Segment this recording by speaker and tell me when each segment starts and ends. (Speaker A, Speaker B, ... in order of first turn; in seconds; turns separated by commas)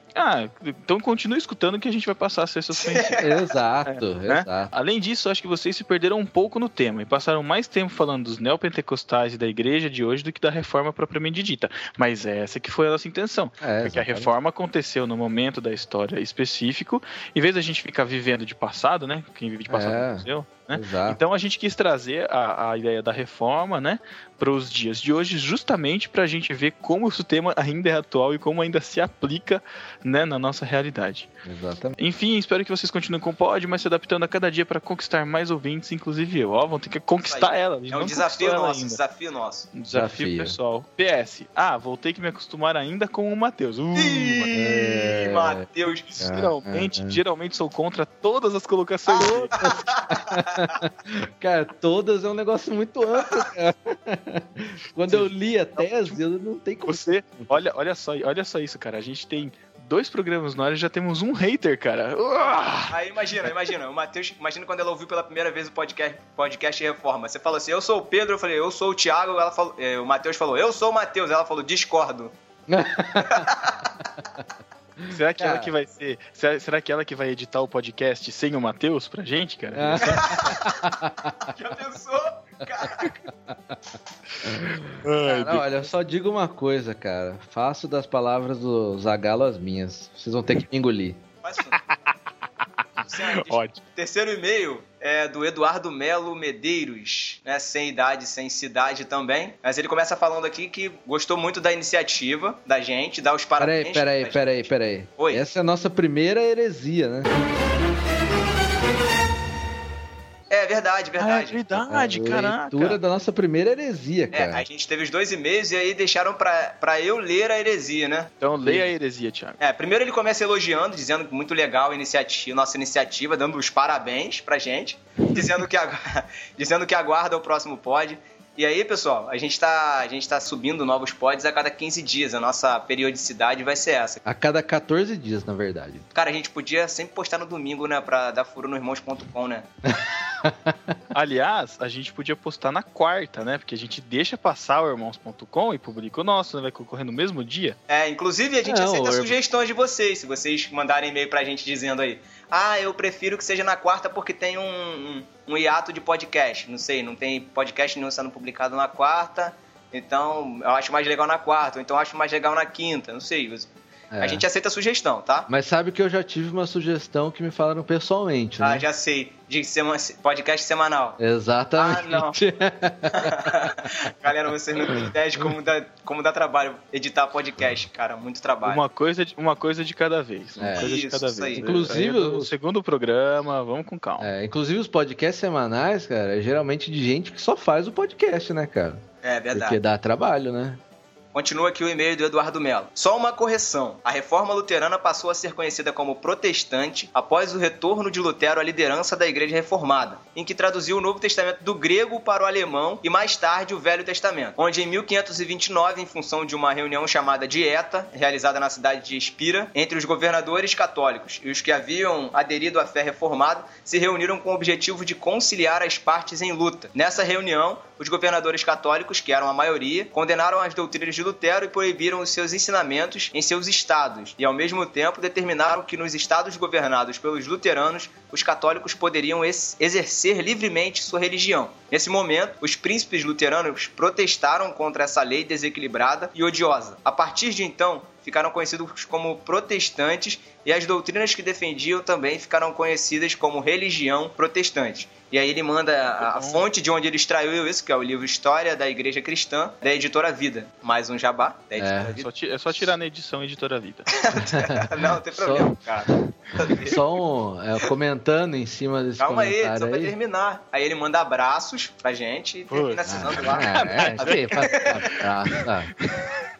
Speaker A: 0.1-3.2, Speaker B: 2.7-3.3, Speaker C: 3.2-4.7, Speaker A: 3.9-31.3, Speaker C: 13.6-14.3, Speaker C: 19.7-21.2, Speaker C: 31.4-31.9, Speaker A: 32.0-39.0, Speaker B: 37.2-39.7, Speaker A: 39.7-44.5, Speaker C: 39.9-40.5, Speaker B: 44.0-46.0, Speaker C: 44.5-45.6, Speaker A: 46.1-49.5, Speaker C: 46.2-47.2, Speaker B: 49.1-50.2, Speaker C: 49.2-57.6, Speaker A: 55.1-56.2, Speaker A: 56.9-63.7, Speaker B: 62.9-72.3, Speaker C: 72.7-73.5, Speaker B: 73.1-73.8, Speaker C: 75.0-75.7, Speaker A: 75.1-80.5, Speaker C: 79.7-81.3, Speaker B: 80.2-80.5, Speaker B: 81.5-83.1, Speaker C: 83.5-83.8, Speaker C: 84.4-91.2, Speaker A: 84.9-85.9, Speaker B: 91.4-91.8, Speaker A: 91.7-93.8, Speaker B: 93.0-105.4, Speaker C: 103.6-107.3, Speaker B: 110.5-111.8, Speaker A: 111.2-113.0, Speaker C: 111.8-114.6, Speaker B: 114.3-118.3, Speaker A: 118.4-119.6, Speaker C: 118.6-118.9, Speaker B: 119.6-134.2, Speaker C: 134.2-136.1, Speaker B: 136.1-139.7, Speaker C: 139.9-140.9, Speaker A: 141.1-147.8, Speaker B: 147.9-163.7, Speaker C: 148.6-149.3, Speaker C: 164.1-164.4, Speaker B: 164.2-165.5, Speaker C: 165.5-168.8, Speaker B: 168.6-171.2, Speaker C: 171.2-173.7, Speaker B: 171.8-172.3, Speaker B: 173.1-178.8, Speaker A: 178.6-184.3, Speaker C: 180.6-180.9, Speaker B: 180.8-181.9, Speaker C: 181.6-182.5, Speaker C: 184.2-190.8, Speaker B: 189.2-189.8, Speaker B: 191.3-252.3, Speaker A: 246.2-246.7, Speaker C: 251.8-252.1, Speaker A: 252.2-254.2, Speaker B: 254.1-257.0, Speaker C: 254.3-255.8, Speaker C: 256.6-260.1, Speaker B: 259.2-265.0, Speaker A: 262.7-264.9, Speaker C: 263.1-265.9